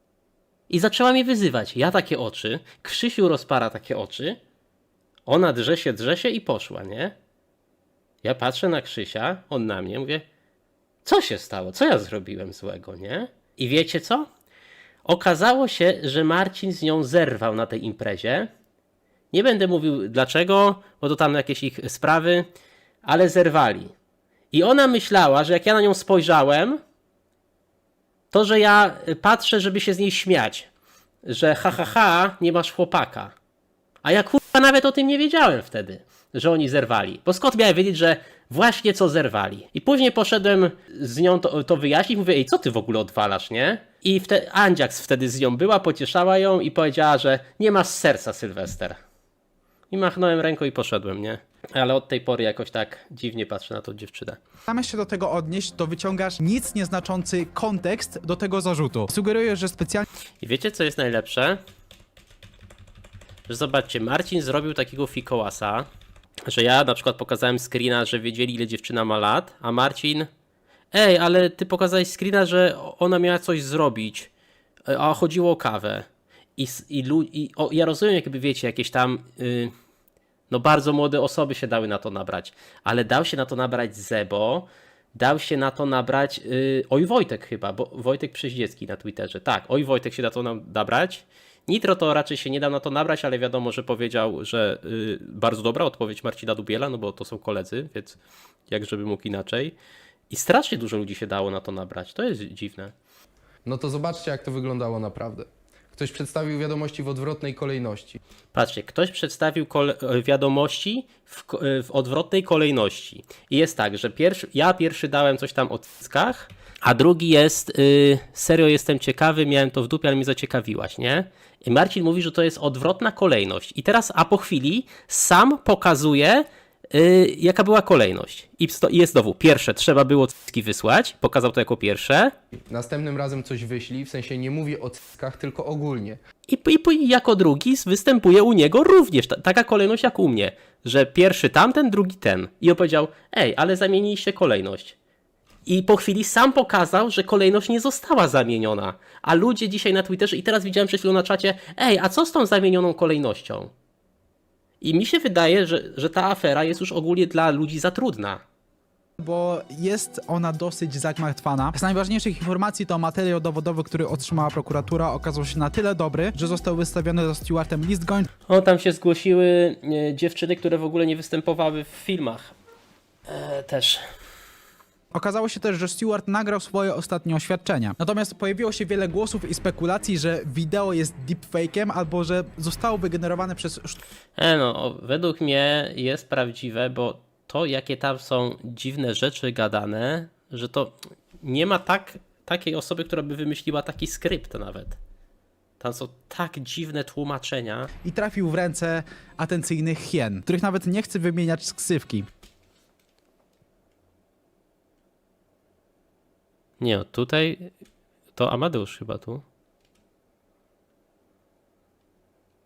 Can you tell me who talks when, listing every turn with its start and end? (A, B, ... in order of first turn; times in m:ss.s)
0:00.7-0:04.4 A
0:05.2-0:07.1 A
0:08.2-0:10.2 A
0:11.0-0:14.3 A
0:15.0-0:18.5 A
0:19.3-0:22.5 A
0:23.0-0:23.9 A
0:24.5-0:26.8 A
0:28.3-0:30.7 A
0:31.2-0:33.3 A
0:34.0-0:49.0 A
0:49.9-0:54.4 A
0:54.7-1:00.0 B
1:00.4-1:01.6 A
1:03.5-1:05.8 A
1:06.5-1:10.3 A
1:10.9-1:14.3 A
1:14.9-1:19.7 A
1:20.5-1:39.8 A
1:40.3-1:42.9 A
1:43.6-1:48.2 C
1:48.5-2:12.3 A
2:12.7-2:16.2 C
2:16.5-2:25.0 A
2:25.6-2:33.7 A
2:34.8-2:38.4 A
2:39.2-2:48.3 B
2:48.5-2:52.5 A
2:53.3-2:54.0 A
2:55.1-3:04.0 B
3:04.4-3:15.0 A
3:15.8-3:17.9 A
3:18.0-3:22.2 B
3:26.8-3:27.7 A
3:28.4-3:29.4 A